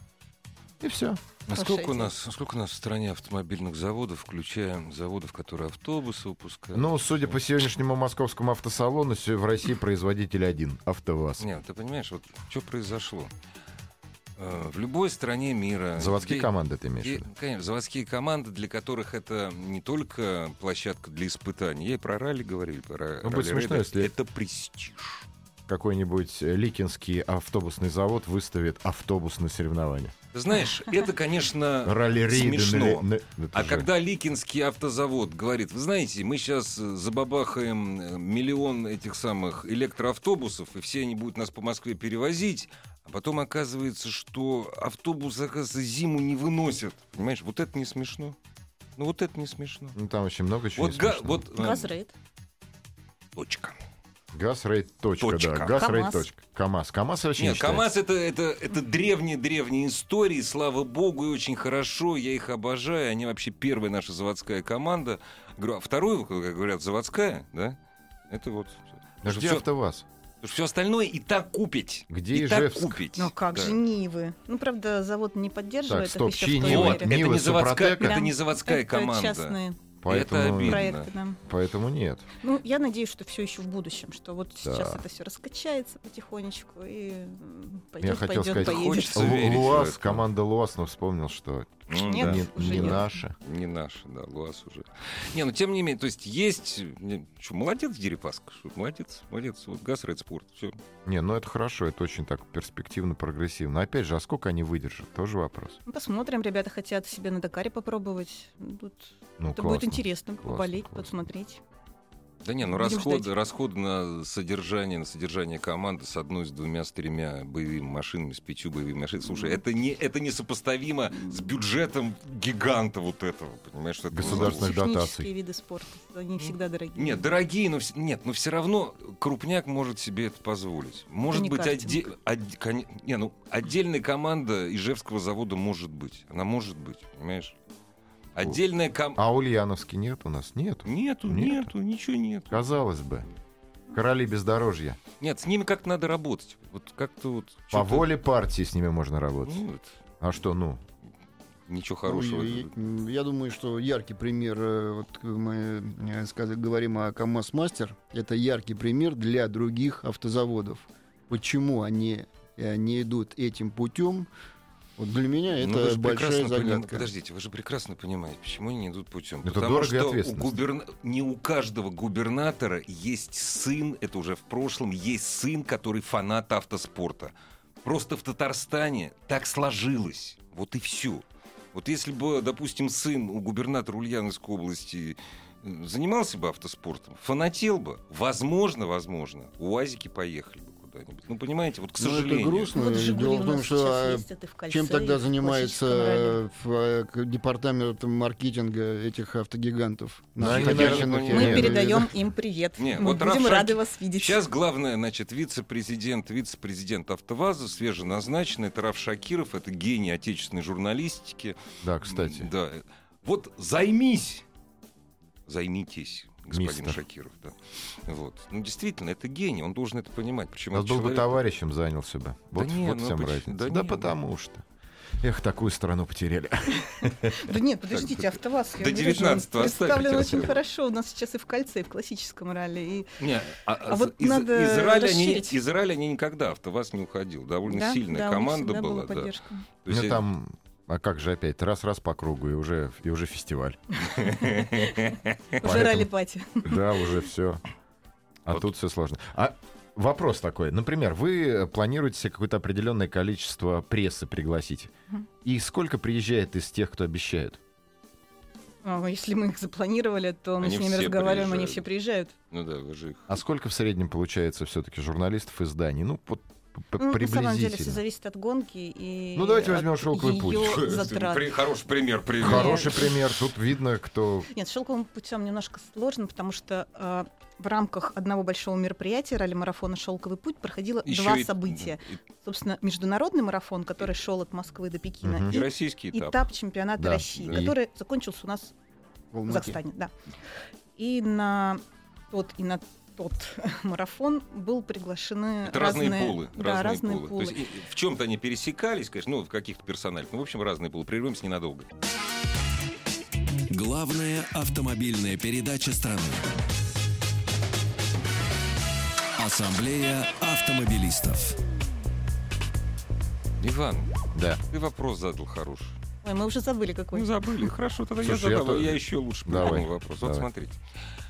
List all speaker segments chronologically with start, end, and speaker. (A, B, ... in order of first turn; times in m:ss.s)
0:00.8-0:01.2 A
0:01.5-0:07.4 B
0:01.5-0:02.1 C
0:06.7-0:11.5 A
0:11.4-0:13.3 B
0:14.4-0:25.2 B
0:16.0-0:17.3 A
0:23.2-0:24.1 A
0:25.7-0:30.2 A
0:30.3-0:48.4 B
0:31.8-0:33.9 A
0:49.0-0:50.0 B
0:50.0-0:51.5 A
0:50.8-0:51.9 B
0:51.6-0:52.1 C
0:53.4-0:53.8 B
0:54.3-0:57.9 A
0:55.2-0:55.9 B
0:55.8-0:56.3 C
0:57.4-1:07.8 B
1:08.3-1:09.6 B
1:09.2-1:10.1 A
1:10.4-1:13.8 B
1:12.1-1:13.0 A
1:13.2-1:17.2 C
1:15.9-1:18.2 A
1:16.6-1:21.1 B
1:18.0-1:19.8 C
1:20.0-1:20.9 A
1:20.6-1:21.4 C
1:21.4-1:22.3 A
1:22.4-1:29.6 C
1:24.6-1:25.0 A
1:28.0-1:33.4 A
1:28.5-1:30.3 B
1:31.9-1:40.8 B
1:31.9-1:33.0 C
1:41.0-1:45.8 A
1:45.9-1:51.6 C
1:49.4-1:51.1 A
1:52.4-2:04.7 B
1:52.6-1:53.3 C
1:59.3-1:59.6 C
2:01.2-2:01.5 C
2:04.1-2:05.3 A
2:04.2-2:07.2 C
2:06.4-2:17.6 B
2:11.3-2:12.0 C
2:18.4-2:19.2 B
2:19.2-2:21.7 A
2:20.9-2:22.6 B
2:22.5-2:23.3 A
2:23.9-2:25.0 A
2:25.2-2:28.1 B
2:27.7-2:29.6 A
2:29.4-2:30.0 B
2:30.2-2:30.8 A
2:31.7-2:32.7 B
2:32.0-2:44.3 D
2:45.0-2:47.1 D
2:45.6-3:12.7 B
2:49.4-2:50.6 A
3:12.0-3:22.1 D
3:12.7-3:16.4 C
3:20.4-3:21.8 A
3:20.4-3:21.8 B
3:21.3-3:24.4 C
3:22.8-3:34.4 B
3:31.8-3:32.5 A
3:35.5-3:41.4 B
3:36.5-3:37.0 A
3:40.7-3:44.6 A
3:42.6-3:44.2 B
3:45.2-3:47.5 A
3:47.0-3:53.1 C
3:47.9-3:50.6 B
3:53.2-4:00.2 B
3:53.8-3:55.6 C
3:57.7-3:59.6 C
3:59.9-4:03.8 A
4:04.1-4:05.4 B
4:04.4-4:07.0 C
4:05.6-4:06.1 A
4:06.6-4:07.6 A
4:08.5-4:14.9 A
4:15.4-4:17.6 A
4:18.8-4:22.3 C
4:20.6-4:21.9 B
4:22.5-4:23.3 B
4:23.3-4:28.0 A
4:27.0-4:31.5 C
4:29.4-4:31.0 A
4:30.5-4:33.2 B
4:32.4-4:34.5 A
4:32.4-4:33.1 C
4:34.5-4:48.7 C
4:41.1-4:42.2 B
4:45.2-4:45.6 A
4:45.5-4:46.5 B
4:47.0-4:47.8 A
4:47.4-4:47.7 B
4:49.3-4:49.8 D
4:49.5-4:50.1 C
4:51.0-4:57.6 C
4:55.6-5:01.9 B
5:03.7-5:06.5 E
5:09.4-5:11.6 E
5:13.6-5:14.1 B
5:14.4-5:14.6 A
5:14.7-5:16.0 B
5:16.2-5:17.3 C
5:17.1-5:20.8 B
5:18.2-5:20.5 A